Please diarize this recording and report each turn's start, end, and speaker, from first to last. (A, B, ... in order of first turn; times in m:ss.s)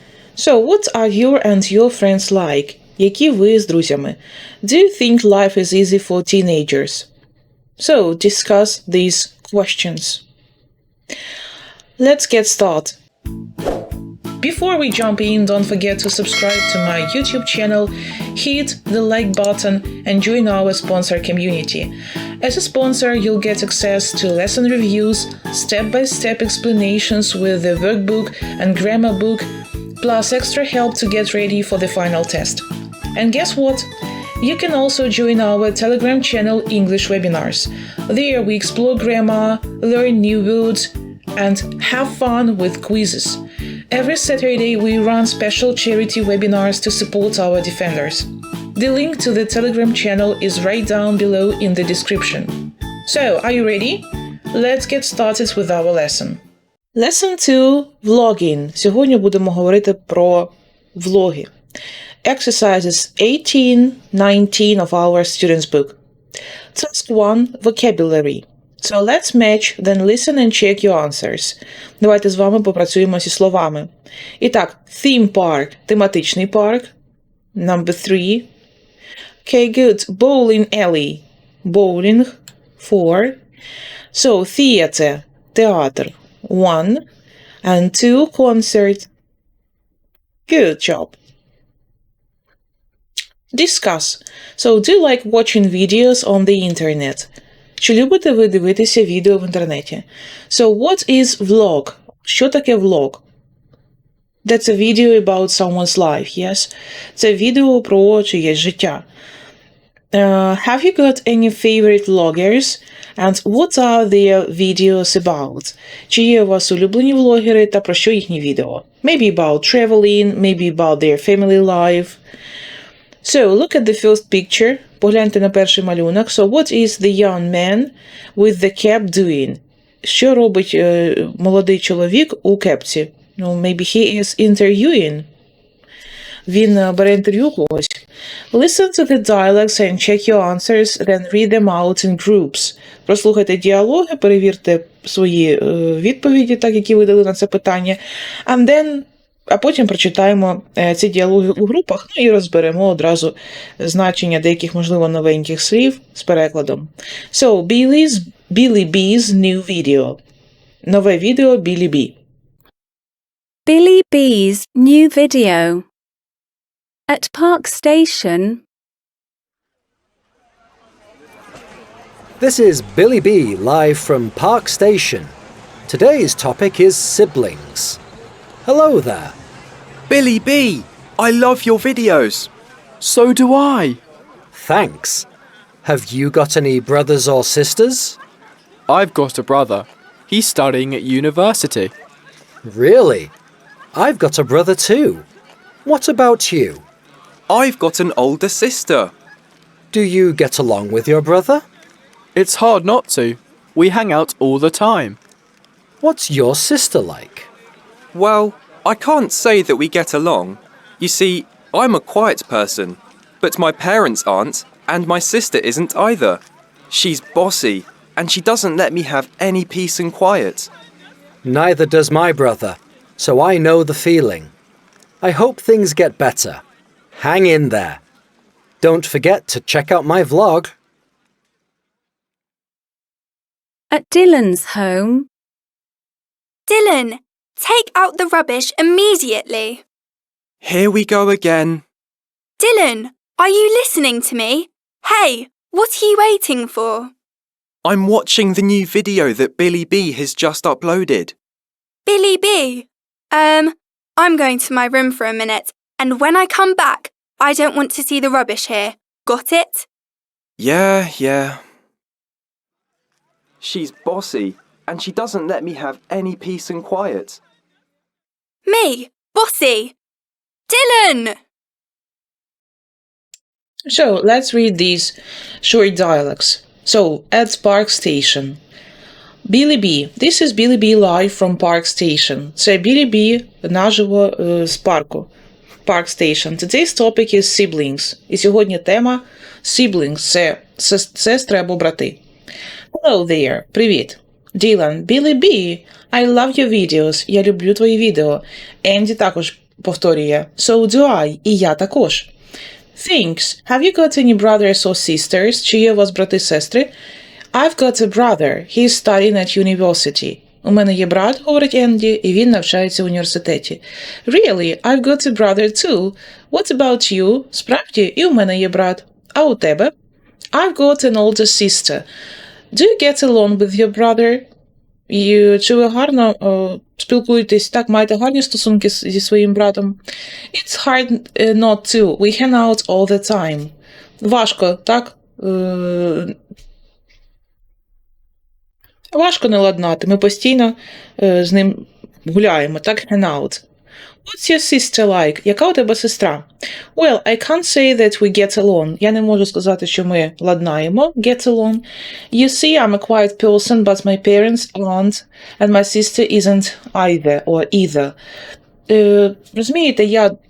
0:00.4-0:07.1 A
0:07.8-0:10.2 A
0:12.0-0:13.0 A
0:14.4-0:29.4 A
0:30.0-0:33.9 A
0:34.4-0:56.4 A
0:56.9-1:01.5 A
1:02.2-1:06.0 A
1:06.7-1:16.9 A
1:17.6-1:18.5 A
1:19.4-1:23.4 A
1:24.1-1:27.0 A
1:27.6-1:29.1 A
1:30.5-1:31.2 A
1:33.5-1:43.2 A
1:44.4-1:49.0 A
1:50.1-2:02.2 A
2:03.2-2:15.2 A
2:16.5-2:40.2 A
2:40.8-2:42.1 A
2:43.6-2:45.8 B
2:47.1-2:48.6 B
2:52.4-2:55.3 C
2:55.9-2:58.0 C
2:58.6-2:59.4 C
3:00.1-3:02.5 D
3:03.0-3:04.0 E
3:04.5-3:05.3 C
3:05.8-3:08.2 C
3:08.9-3:11.9 E
3:12.6-3:13.3 C
3:13.9-3:15.2 C
3:15.8-3:16.8 C
3:17.5-3:19.1 D
3:19.9-3:21.6 C
3:22.4-3:25.2 E
3:26.0-3:27.5 C
3:28.1-3:40.7 D
3:41.4-3:44.5 C
3:45.2-3:46.6 C
3:47.2-3:48.0 C
3:48.8-3:50.7 C
3:53.9-3:55.3 B
3:56.7-3:59.8 F
4:00.6-4:01.8 D
4:02.6-4:07.1 F
4:07.8-4:11.3 D
4:12.1-4:19.8 F
4:20.6-4:21.6 D
4:23.6-4:27.4 D
4:28.6-4:29.9 F
4:30.7-4:31.3 F
4:33.9-4:38.6 A
4:39.4-4:45.3 A
4:45.8-4:52.2 A
4:52.9-5:02.3 A
5:02.9-5:06.9 A
5:07.5-5:19.9 A
5:20.5-5:22.0 A
5:22.7-5:24.4 A
5:25.1-5:30.0 A
5:30.5-5:36.3 A
5:39.1-5:43.6 A
5:44.2-5:58.1 A
5:58.9-6:00.3 A